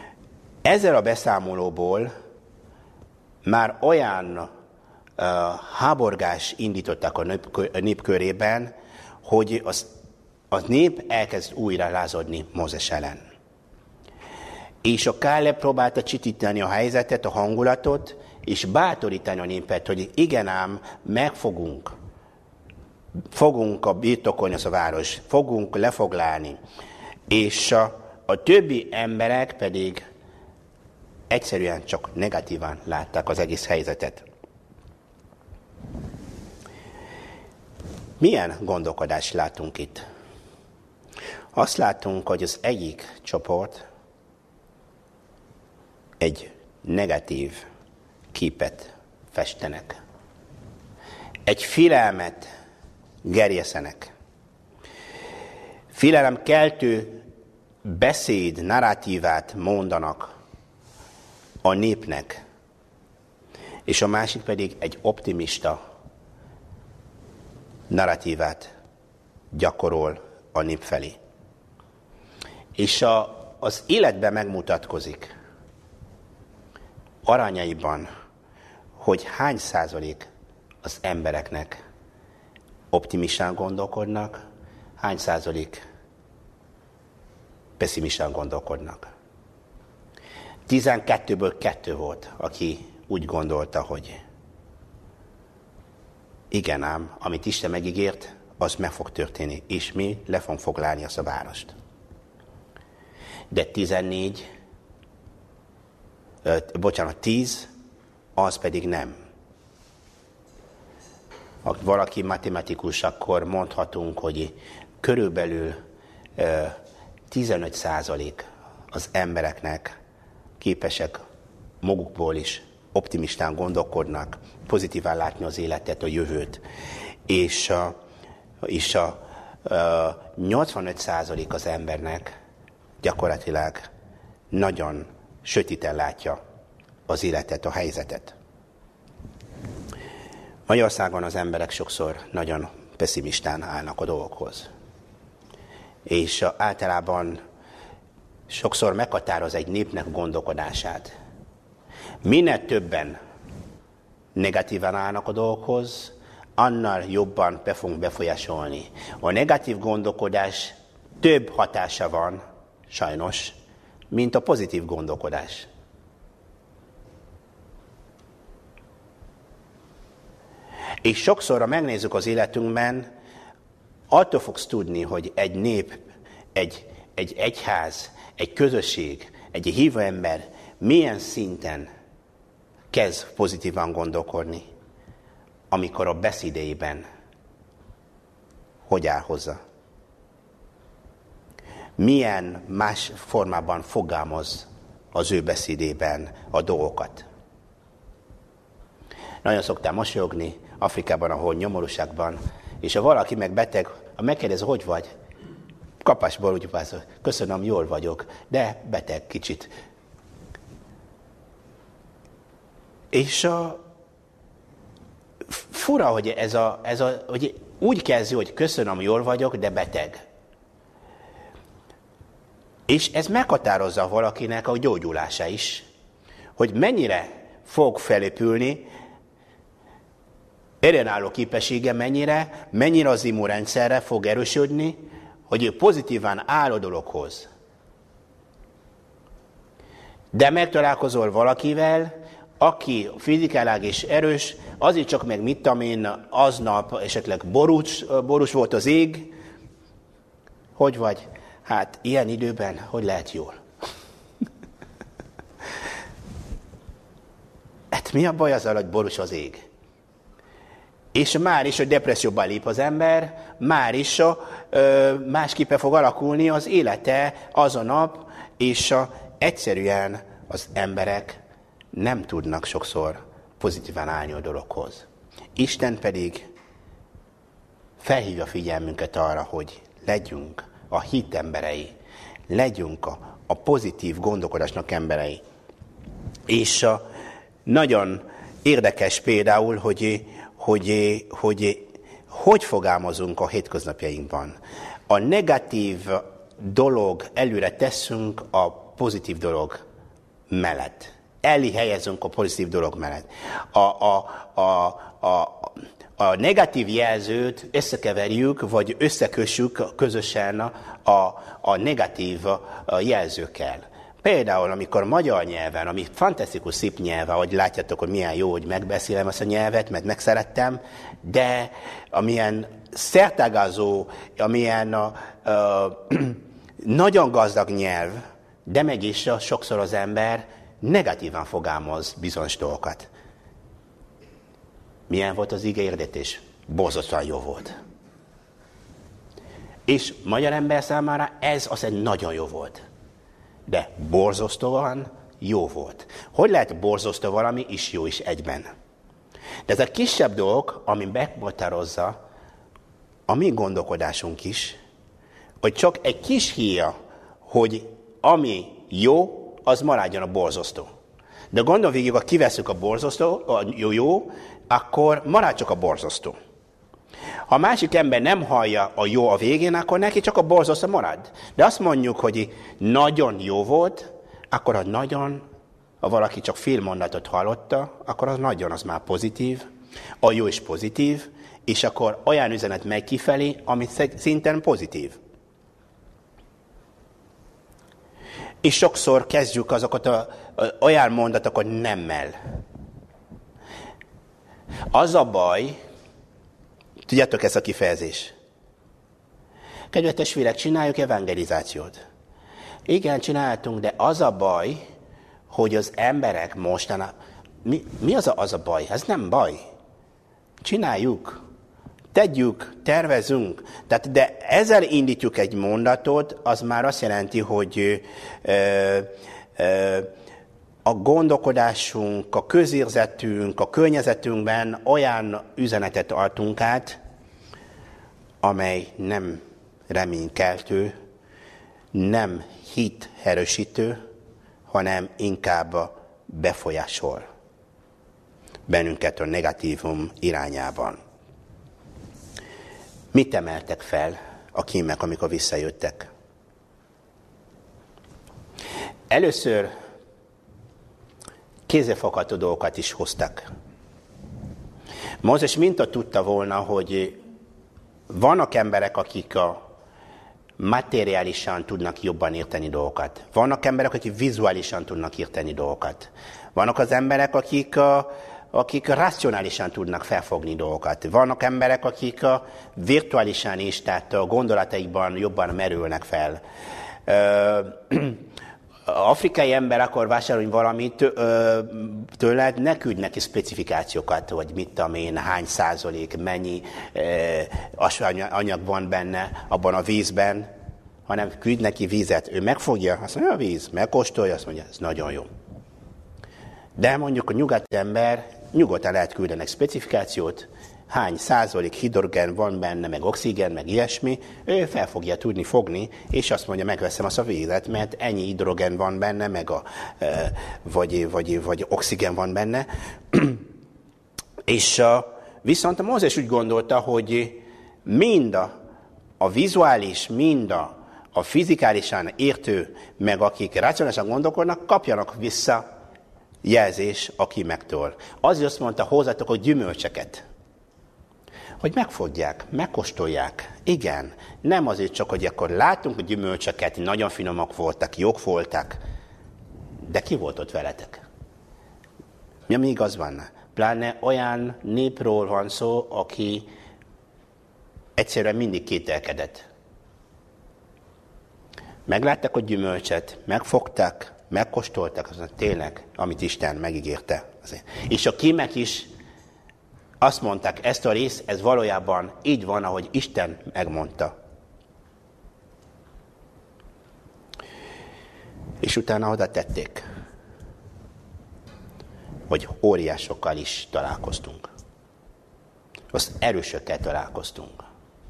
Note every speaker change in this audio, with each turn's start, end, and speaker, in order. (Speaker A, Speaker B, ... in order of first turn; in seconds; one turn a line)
Speaker A: 0.7-2.1
Speaker A: 3.5-4.5
Speaker A: 5.2-8.7
Speaker A: 9.2-9.9
Speaker A: 10.5-13.2
Speaker A: 14.8-21.9
Speaker A: 23.3-26.6
Speaker A: 27.3-30.0
Speaker A: 31.3-34.3
Speaker A: 38.2-40.0
Speaker A: 41.5-43.8
Speaker A: 46.2-47.6
Speaker A: 48.3-50.0
Speaker A: 51.5-52.5
Speaker A: 53.2-54.1
Speaker A: 55.9-57.2
Speaker A: 57.9-60.3
Speaker A: 61.6-62.4
Speaker A: 63.9-65.8
Speaker A: 67.9-68.7
Speaker A: 69.5-71.2
Speaker A: 72.8-75.3
Speaker A: 77.2-78.1
Speaker A: 79.0-80.3
Speaker A: 80.8-81.8
Speaker A: 82.9-84.4
Speaker A: 85.0-85.8
Speaker A: 87.8-89.1
Speaker A: 90.7-94.2
Speaker A: 96.5-101.7
Speaker A: 103.5-104.5
Speaker A: 106.5-107.7
Speaker A: 108.4-109.2
Speaker A: 111.6-115.8
Speaker A: 116.4-116.8
Speaker A: 117.3-119.9
Speaker A: 120.6-121.2
Speaker A: 121.8-126.6
Speaker A: 127.3-128.0
Speaker A: 128.6-132.3
Speaker A: 133.0-133.9
Speaker A: 134.5-136.4
Speaker A: 137.1-138.3
Speaker A: 140.7-144.7
Speaker A: 146.1-147.4
Speaker A: 148.5-151.1
Speaker A: 152.2-153.2
Speaker A: 154.4-163.6
Speaker A: 164.1-165.7
Speaker A: 171.0-173.1
Speaker A: 174.1-176.0
Speaker A: 176.6-181.9
Speaker A: 182.9-184.7
Speaker A: 185.7-187.1
Speaker A: 188.9-189.6
Speaker A: 192.0-197.2
Speaker A: 199.4-205.1
Speaker A: 206.0-209.7
Speaker A: 213.1-213.8
Speaker A: 215.5-220.2
Speaker A: 222.9-225.8
Speaker A: 226.6-228.9
Speaker A: 230.8-237.5
Speaker A: 240.3-249.3
Speaker A: 250.8-253.6
Speaker A: 257.9-259.6
Speaker A: 261.1-271.4
Speaker A: 271.9-276.5
Speaker A: 278.0-281.9
Speaker A: 282.5-285.4
Speaker A: 286.5-287.0
Speaker A: 287.7-294.6
Speaker A: 295.1-299.8
Speaker A: 300.5-333.1
Speaker A: 335.1-337.8
Speaker A: 339.9-342.8
Speaker A: 343.7-348.7
Speaker A: 349.7-352.2
Speaker A: 353.3-354.8
Speaker A: 355.6-356.9
Speaker A: 357.5-360.9
Speaker A: 361.5-366.4
Speaker A: 367.5-375.4
Speaker A: 376.0-379.7
Speaker A: 380.2-385.2
Speaker A: 388.6-392.4
Speaker A: 394.9-395.8
Speaker A: 397.1-398.3
Speaker A: 399.9-402.0
Speaker A: 402.9-404.8
Speaker A: 405.5-407.1
Speaker A: 407.6-409.6
Speaker A: 410.6-411.4
Speaker A: 412.1-420.1
Speaker A: 420.9-427.0
Speaker A: 428.4-430.9
Speaker A: 431.9-434.0
Speaker A: 434.7-437.3
Speaker A: 438.7-441.0
Speaker A: 443.1-446.1
Speaker A: 449.1-449.7
Speaker A: 451.7-453.5
Speaker A: 455.2-457.2
Speaker A: 458.1-459.6
Speaker A: 460.6-476.4
Speaker A: 477.1-478.2
Speaker A: 478.9-490.5
Speaker A: 491.1-495.3
Speaker A: 496.8-513.4
Speaker A: 514.5-518.5
Speaker A: 519.2-525.6
Speaker A: 526.4-530.2
Speaker A: 531.6-538.8
Speaker A: 539.9-541.0
Speaker A: 542.5-546.5
Speaker A: 548.0-549.5
Speaker A: 551.9-558.9
Speaker A: 560.0-564.1
Speaker A: 568.6-569.8
Speaker A: 572.3-574.5
Speaker A: 575.9-577.6